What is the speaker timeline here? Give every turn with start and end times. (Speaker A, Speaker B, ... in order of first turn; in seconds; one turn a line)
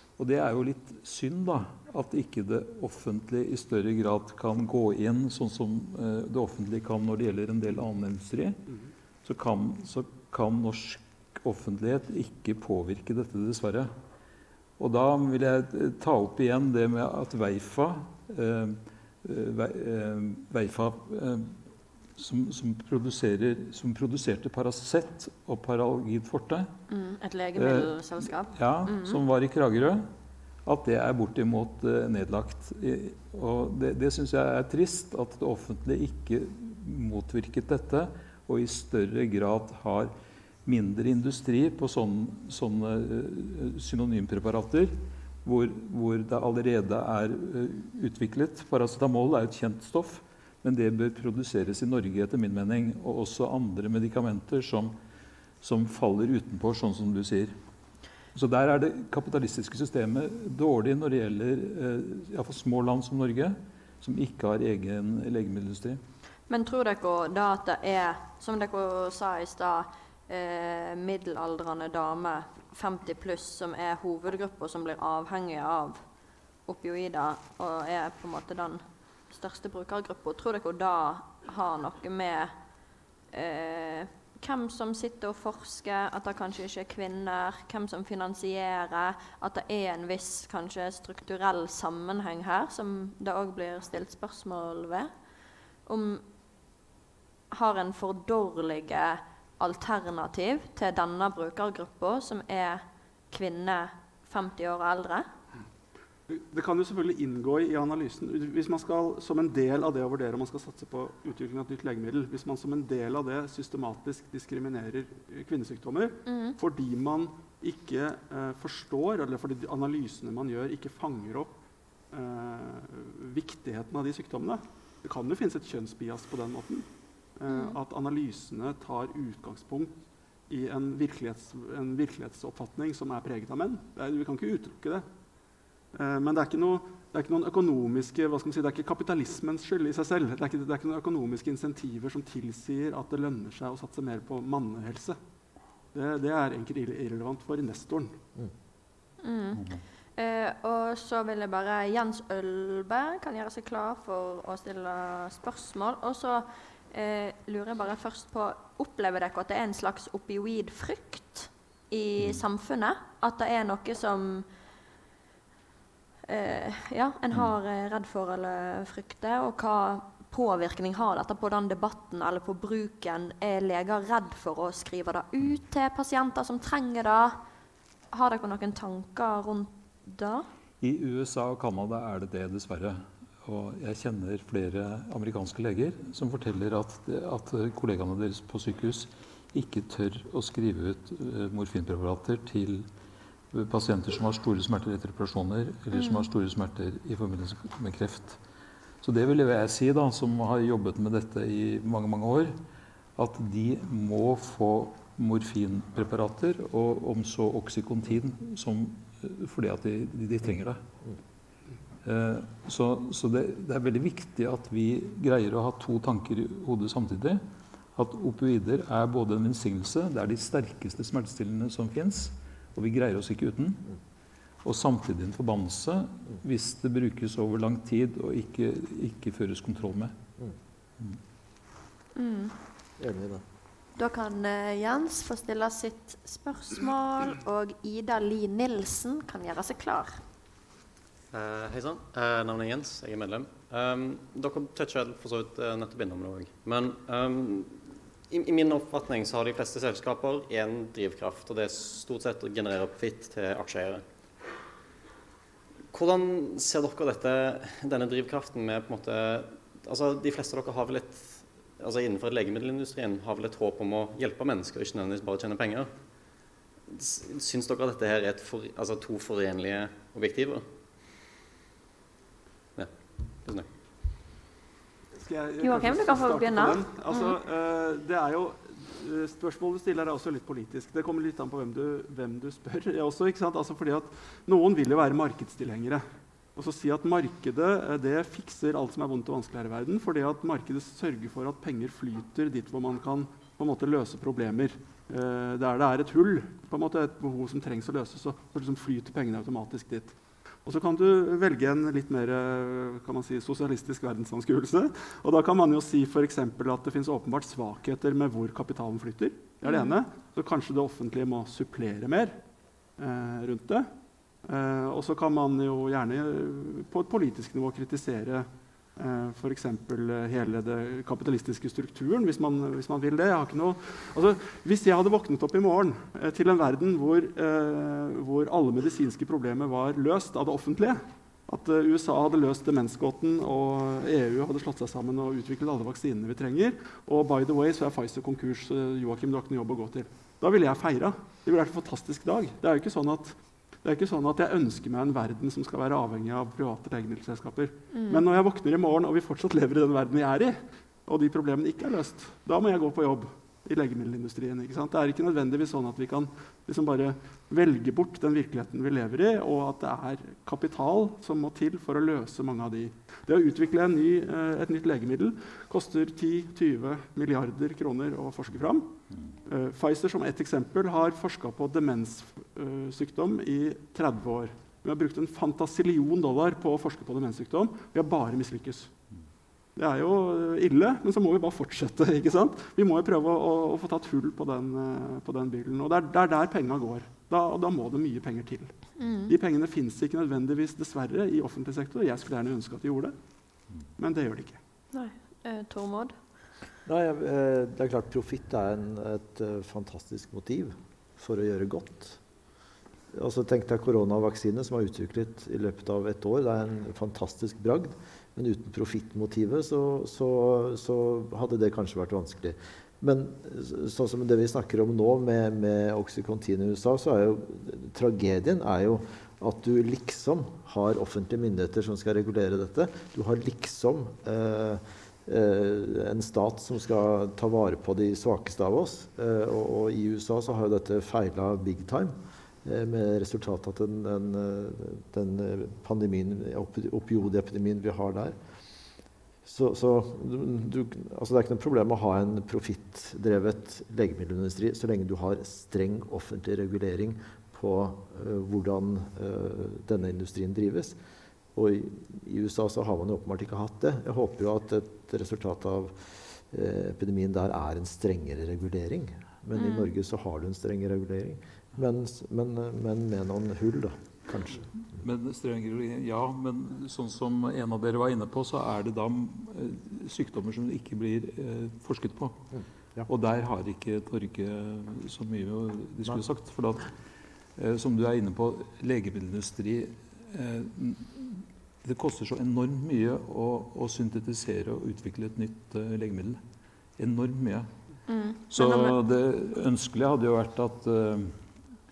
Speaker A: 0.2-8.6
Speaker A: 9.2-13.9
Speaker A: 14.8-21.6
Speaker A: 22.2-26.7
Speaker B: 26.9-29.2
Speaker A: 27.6-30.1
Speaker A: 30.6-40.1
Speaker A: 40.6-54.9
Speaker A: 55.6-57.5
Speaker A: 58.3-66.0
Speaker B: 66.5-76.0
Speaker B: 76.7-82.5
Speaker B: 83.3-95.1
Speaker B: 95.9-96.2
Speaker B: 97.5-105.2
Speaker C: 106.3-121.5
Speaker B: 116.2-116.6
Speaker C: 122.1-129.9
Speaker B: 127.5-127.8
Speaker C: 130.5-135.0
Speaker C: 135.9-145.2
Speaker C: 145.9-148.1
Speaker B: 149.2-149.6
Speaker A: 149.5-149.8
Speaker B: 150.2-164.4
Speaker B: 166.3-177.4
Speaker B: 178.1-180.5
Speaker A: 180.8-192.9
Speaker A: 193.5-198.4
Speaker B: 195.9-196.3
Speaker A: 199.0-202.5
Speaker A: 203.2-210.8
Speaker A: 212.0-217.4
Speaker A: 217.9-223.9
Speaker A: 224.6-230.1
Speaker B: 232.2-232.6
Speaker D: 233.0-233.4
Speaker B: 233.9-240.2
Speaker E: 241.3-254.0
Speaker E: 255.9-265.9
Speaker E: 266.9-270.6
Speaker E: 272.8-273.7
Speaker C: 275.1-286.0
Speaker B: 275.6-277.4
Speaker C: 286.6-312.4
Speaker B: 309.6-309.9
Speaker C: 313.0-313.9
Speaker C: 314.4-368.9
Speaker B: 347.9-348.2
Speaker C: 369.5-378.9
Speaker C: 379.8-388.7
Speaker B: 389.0-389.3
Speaker C: 389.3-393.1
Speaker C: 394.0-394.6
Speaker B: 394.9-396.1
Speaker D: 396.9-402.2
Speaker D: 403.1-438.4
Speaker D: 439.4-451.0
Speaker D: 451.5-464.6
Speaker B: 459.5-459.9
Speaker A: 465.0-472.4
Speaker D: 472.5-473.1
Speaker A: 473.1-476.9
Speaker A: 477.6-486.4
Speaker A: 487.0-487.7
Speaker B: 488.1-489.0
Speaker A: 488.5-491.4